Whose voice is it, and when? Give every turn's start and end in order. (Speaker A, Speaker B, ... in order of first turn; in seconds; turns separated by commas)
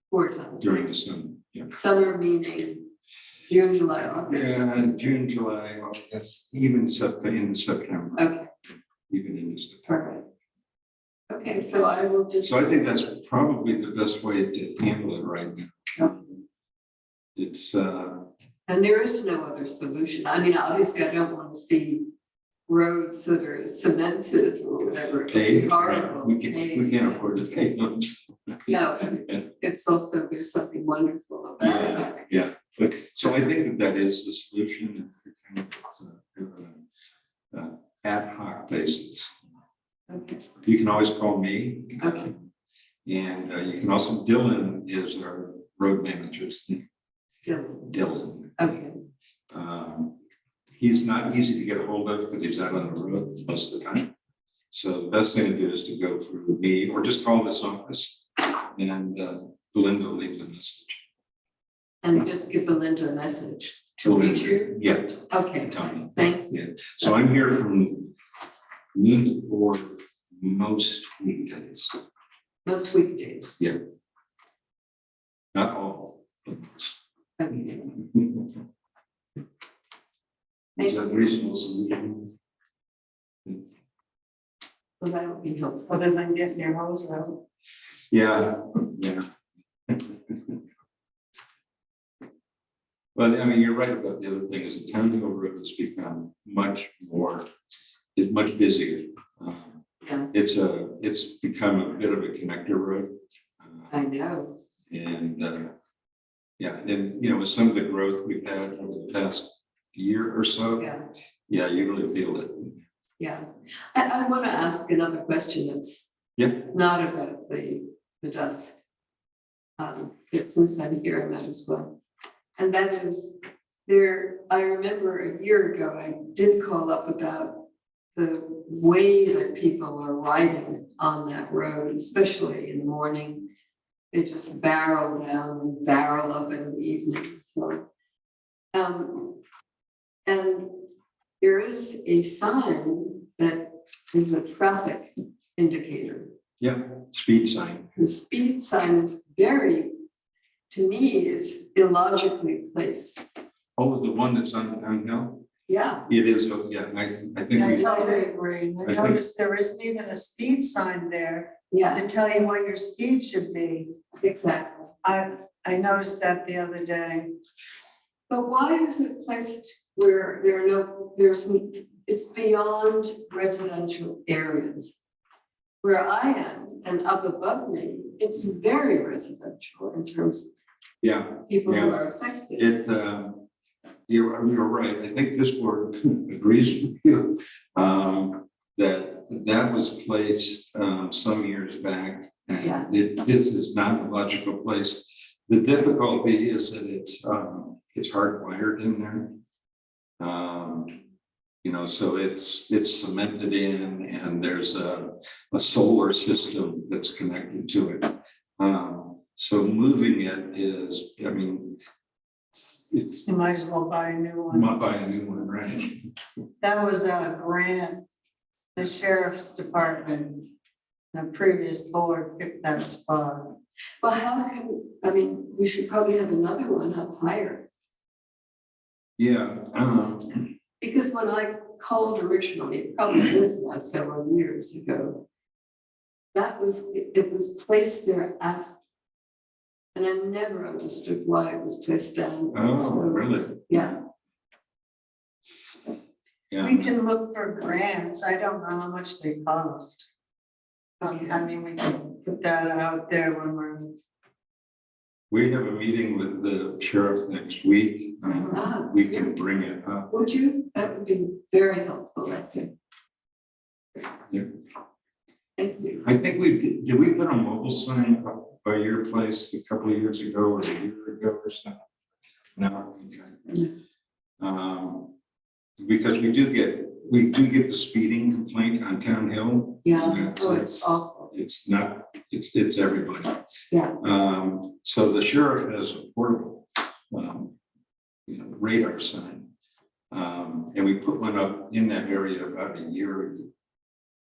Speaker A: 0.1-0.8, Speaker B: 0.6-1.7, Speaker A: 1.7-2.9, Speaker A: 3.5-4.8, Speaker B: 4.3-8.3, Speaker A: 8.2-8.5, Speaker B: 9.1-10.1, Speaker A: 9.9-10.2, Speaker A: 11.3-12.8, Speaker B: 12.4-16.2, Speaker B: 17.4-18.3, Speaker A: 18.7-22.1, Speaker A: 22.7-27.3, Speaker B: 25.3-29.4, Speaker A: 28.7-32.3, Speaker B: 31.6-36.8, Speaker B: 37.5-39.3, Speaker A: 40.1-40.4, Speaker B: 40.6-42.4, Speaker A: 42.0-42.3, Speaker B: 43.0-46.8, Speaker A: 47.5-47.9, Speaker B: 47.9-48.7, Speaker A: 48.6-49.0, Speaker B: 49.5-50.2, Speaker B: 50.8-54.1, Speaker B: 54.7-61.0, Speaker A: 62.0-66.9, Speaker B: 64.0-68.1, Speaker B: 68.9-72.0, Speaker A: 72.6-73.6, Speaker B: 75.5-76.9, Speaker A: 77.4-77.9, Speaker B: 78.0-78.4, Speaker B: 80.8-82.3, Speaker A: 80.8-81.3, Speaker A: 85.0-86.2, Speaker C: 85.9-87.4, Speaker B: 88.1-89.2, Speaker B: 89.9-90.6, Speaker B: 93.1-97.5, Speaker B: 98.2-99.8, Speaker A: 100.0-100.3, Speaker B: 100.3-103.9, Speaker A: 103.9-104.6, Speaker B: 104.9-105.7, Speaker B: 106.6-110.9, Speaker A: 110.8-111.1, Speaker B: 111.5-112.8, Speaker A: 113.2-116.1, Speaker B: 116.4-116.7, Speaker A: 116.7-118.8, Speaker A: 119.8-122.0, Speaker A: 122.6-133.5, Speaker A: 134.1-137.9, Speaker A: 138.7-139.4, Speaker A: 140.2-140.8, Speaker A: 141.4-146.3, Speaker B: 146.6-148.0, Speaker A: 148.0-149.9, Speaker A: 150.7-153.2, Speaker B: 153.8-155.4, Speaker A: 155.7-156.0, Speaker B: 156.1-158.0, Speaker C: 157.5-163.9, Speaker A: 157.7-158.3, Speaker B: 158.8-159.2, Speaker A: 161.7-162.0, Speaker A: 164.2-164.9, Speaker C: 165.0-167.3, Speaker A: 168.3-174.9, Speaker A: 175.8-180.5, Speaker B: 181.0-182.0, Speaker A: 181.5-182.7, Speaker B: 182.5-183.5, Speaker B: 184.1-199.4, Speaker A: 192.6-192.9, Speaker B: 200.2-201.0, Speaker B: 201.6-211.8, Speaker B: 212.5-213.3, Speaker C: 213.2-214.7, Speaker B: 214.5-216.0, Speaker C: 216.6-218.0, Speaker C: 218.8-220.5, Speaker C: 221.1-223.5, Speaker A: 224.0-227.7, Speaker B: 229.2-230.4, Speaker A: 230.8-235.2, Speaker A: 236.3-238.8, Speaker A: 239.9-244.0, Speaker B: 242.5-244.0, Speaker B: 246.5-246.9, Speaker C: 246.6-250.1, Speaker A: 251.0-251.5, Speaker C: 251.0-253.9, Speaker B: 255.3-260.1, Speaker A: 258.5-259.4, Speaker A: 260.1-262.7, Speaker A: 265.6-266.1, Speaker B: 266.0-271.8, Speaker B: 272.6-273.6, Speaker B: 274.4-275.1, Speaker B: 275.8-283.4, Speaker A: 279.8-281.3, Speaker B: 284.0-287.6, Speaker B: 288.3-289.5, Speaker B: 290.1-293.5